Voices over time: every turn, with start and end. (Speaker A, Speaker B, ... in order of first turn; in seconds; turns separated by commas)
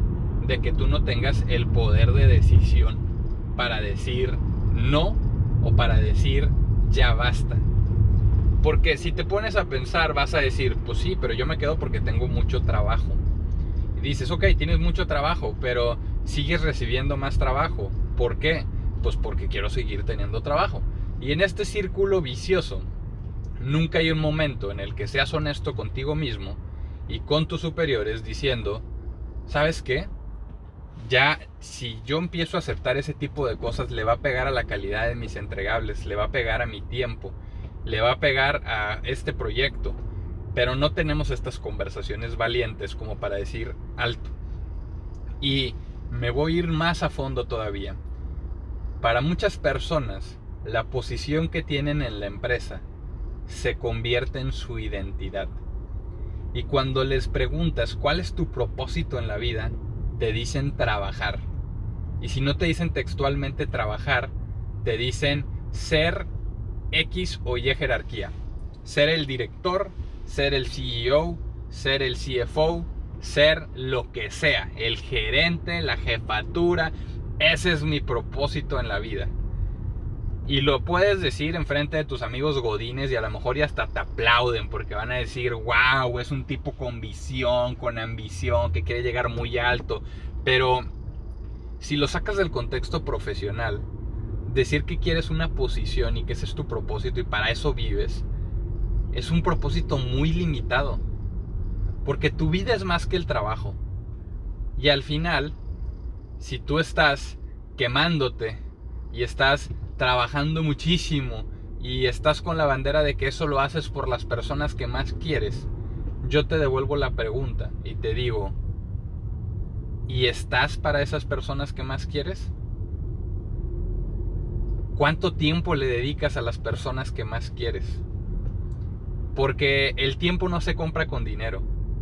Speaker A: 0.4-3.0, Speaker A: 3.5-7.7, Speaker A: 8.6-13.2, Speaker A: 13.9-22.9, Speaker A: 23.6-28.9, Speaker A: 29.5-30.1, Speaker A: 31.0-40.0, Speaker A: 40.5-44.3, Speaker A: 45.4-48.0, Speaker A: 49.0-52.8, Speaker A: 53.5-55.6, Speaker A: 56.5-61.5, Speaker A: 62.2-66.3, Speaker A: 66.9-79.3, Speaker A: 80.5-90.9, Speaker A: 91.8-93.9, Speaker A: 94.5-98.3, Speaker A: 99.1-101.0, Speaker A: 102.0-103.8, Speaker A: 104.8-105.6, Speaker A: 106.4-115.7, Speaker A: 116.2-118.6, Speaker A: 120.1-122.5, Speaker A: 124.9-128.0, Speaker A: 129.3-131.7